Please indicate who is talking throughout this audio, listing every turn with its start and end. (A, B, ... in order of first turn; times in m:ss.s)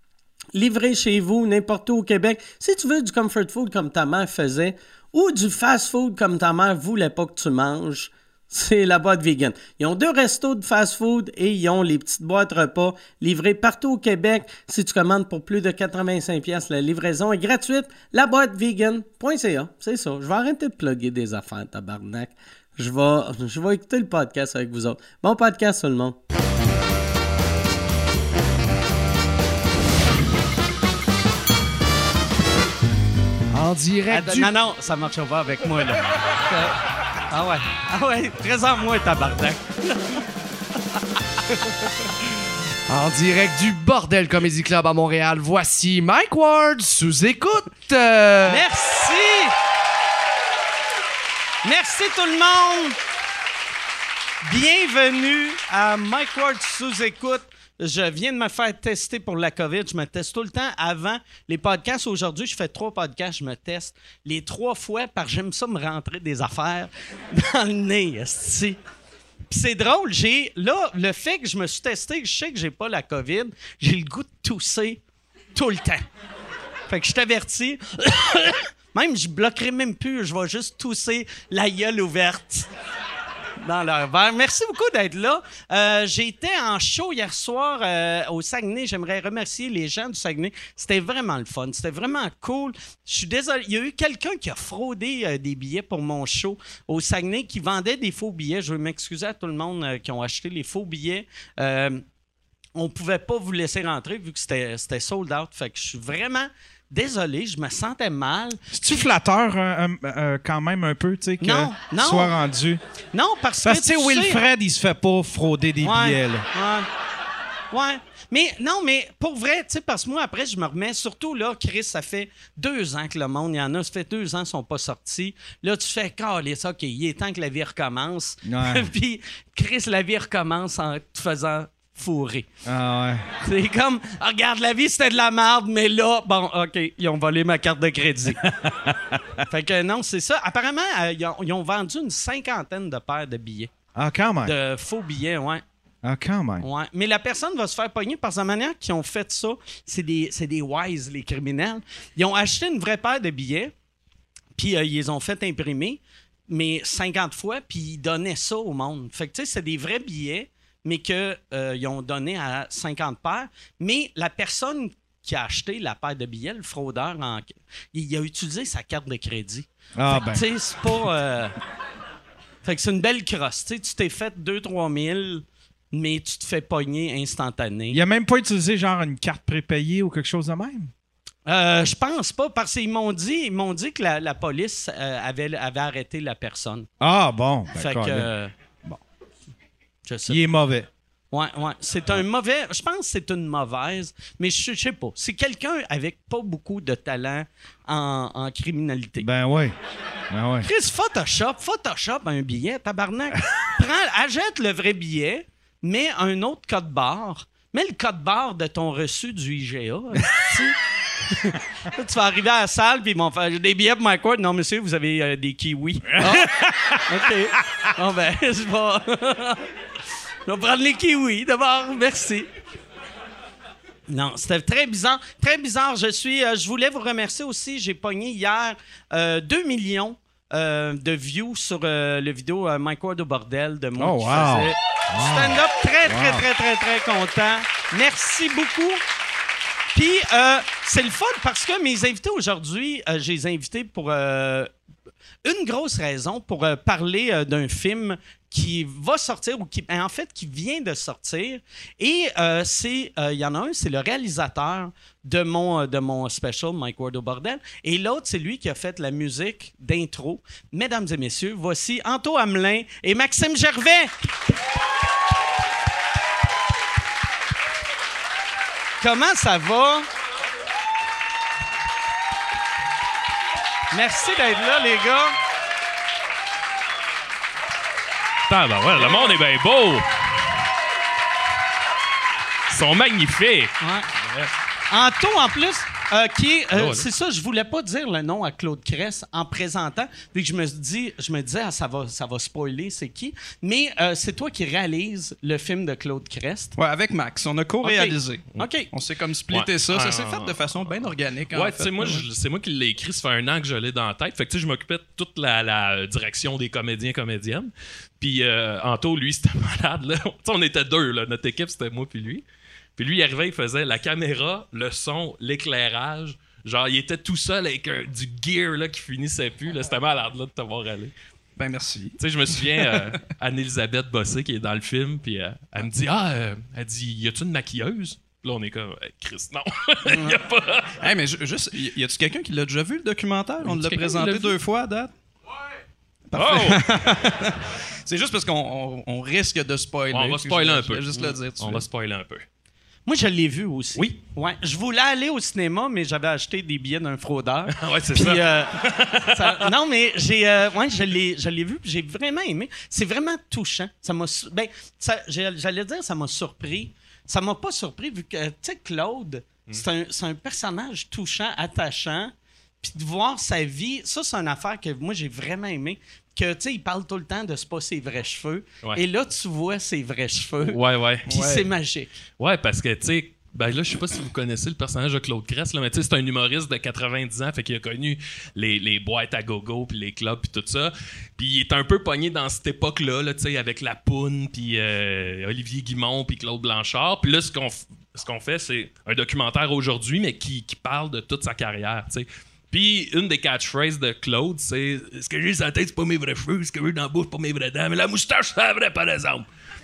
0:00.5-0:26.2 A
0:33.5-0:34.5 B
0:34.1-0:36.8 C
0:37.3-0:40.2 C
0:42.9-0:48.6 B
0:48.5-0:49.5 C
0:51.6-0:53.0 C
0:54.4-1:08.8 C
1:09.5-1:15.0 C
1:15.5-1:16.0 C
1:16.9-1:22.7 C
1:23.6-1:42.0 C
1:42.8-1:48.7 C
1:48.7-1:52.8 D
1:51.4-1:52.3 C
1:53.1-1:54.4 C
1:53.6-1:56.5 D
1:55.8-1:56.9 C
1:57.7-2:12.5 C
2:08.4-2:08.9 D
2:12.6-2:13.3 D
2:13.4-2:18.4 C
2:18.7-2:19.4 D
2:19.5-2:23.7 C
2:24.0-2:24.6 D
2:24.4-2:25.6 C
2:26.0-2:26.7 D
2:26.6-2:33.7 C
2:34.6-2:51.6 C
2:50.0-2:50.4 D
2:52.6-2:58.0 C
2:57.9-3:00.9 D
3:01.5-3:06.9 C
3:07.0-3:08.3 D
3:07.8-3:08.5 C
3:10.0-3:10.4 C
3:10.3-3:10.9 D
3:11.3-3:19.3 C
3:19.2-3:19.8 D
3:20.3-3:20.7 D
3:20.6-3:39.6 C
3:40.4-3:42.5 C
3:44.1-3:59.0 C
3:54.0-3:56.5 D
3:59.9-4:04.7 C
4:05.4-4:24.1 C
4:29.0-4:30.1 C
4:33.9-4:35.4 C
4:38.5-4:40.0 E
4:39.0-4:39.4 C
4:42.7-4:44.5 E
4:43.8-4:44.1 C
4:44.9-4:56.8 C
4:46.7-4:47.1 E
4:56.8-5:02.2 F
4:57.8-4:58.9 C
4:59.5-5:12.4 E
5:13.0-5:21.1 E
5:21.6-5:23.1 F
5:22.2-5:31.0 E
5:30.1-5:30.4 C
5:31.0-5:35.1 F
5:33.6-5:34.5 E
5:36.3-5:41.8 F
5:36.4-5:36.9 E
5:40.1-5:41.1 E
5:41.6-5:42.4 E
5:43.1-6:12.1 C
5:47.7-5:49.6 E
6:10.6-6:11.4 E
6:11.3-6:11.6 F
6:12.4-6:39.4 E